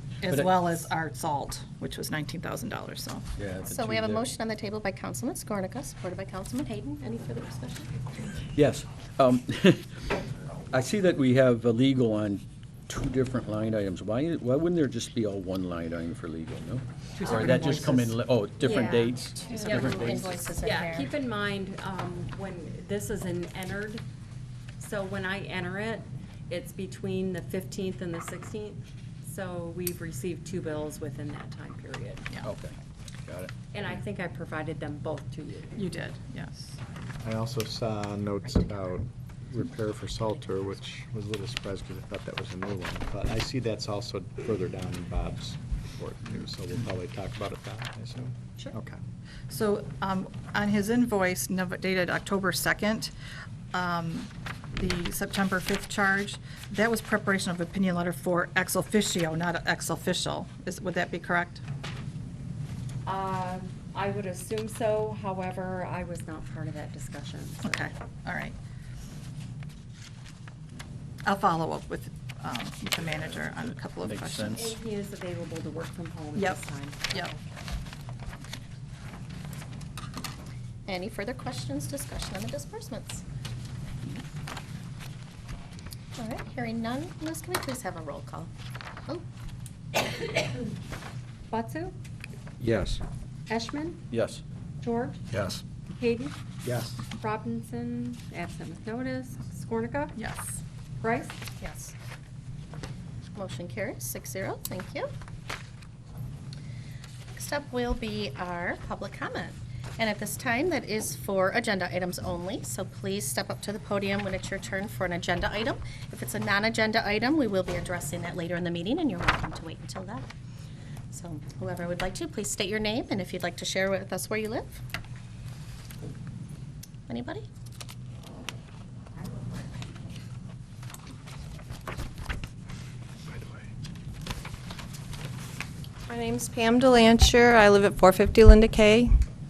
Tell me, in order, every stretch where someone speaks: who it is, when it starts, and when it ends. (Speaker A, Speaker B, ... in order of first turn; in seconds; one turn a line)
Speaker A: 0.2-3.2
Speaker B: 0.2-0.9
Speaker B: 3.4-4.3
Speaker C: 3.7-7.9
Speaker B: 8.5-9.9
Speaker B: 10.7-20.4
Speaker A: 17.1-18.1
Speaker D: 18.6-24.0
Speaker A: 19.4-20.2
Speaker C: 19.6-21.1
Speaker D: 24.8-32.2
Speaker B: 32.4-33.5
Speaker D: 33.7-35.7
Speaker A: 35.7-36.8
Speaker E: 37.2-49.0
Speaker A: 49.5-53.1
Speaker A: 53.7-61.6
Speaker D: 63.0-67.9
Speaker A: 67.6-68.5
Speaker A: 71.2-74.5
Speaker B: 74.0-74.8
Speaker D: 74.5-77.4
Speaker A: 76.3-77.3
Speaker C: 80.9-83.2
Speaker C: 86.2-88.5
Speaker D: 91.5-91.9
Speaker D: 93.5-94.0
Speaker B: 94.1-94.4
Speaker D: 94.8-95.2
Speaker D: 96.0-96.3
Speaker E: 96.6-97.0
Speaker D: 97.1-100.1
Speaker A: 100.2-100.6
Speaker D: 101.0-101.5
Speaker A: 101.6-101.9
Speaker C: 103.3-105.1
Speaker C: 107.3-120.3
Speaker C: 121.1-124.8
Speaker C: 127.1-127.5
Speaker F: 136.1-139.2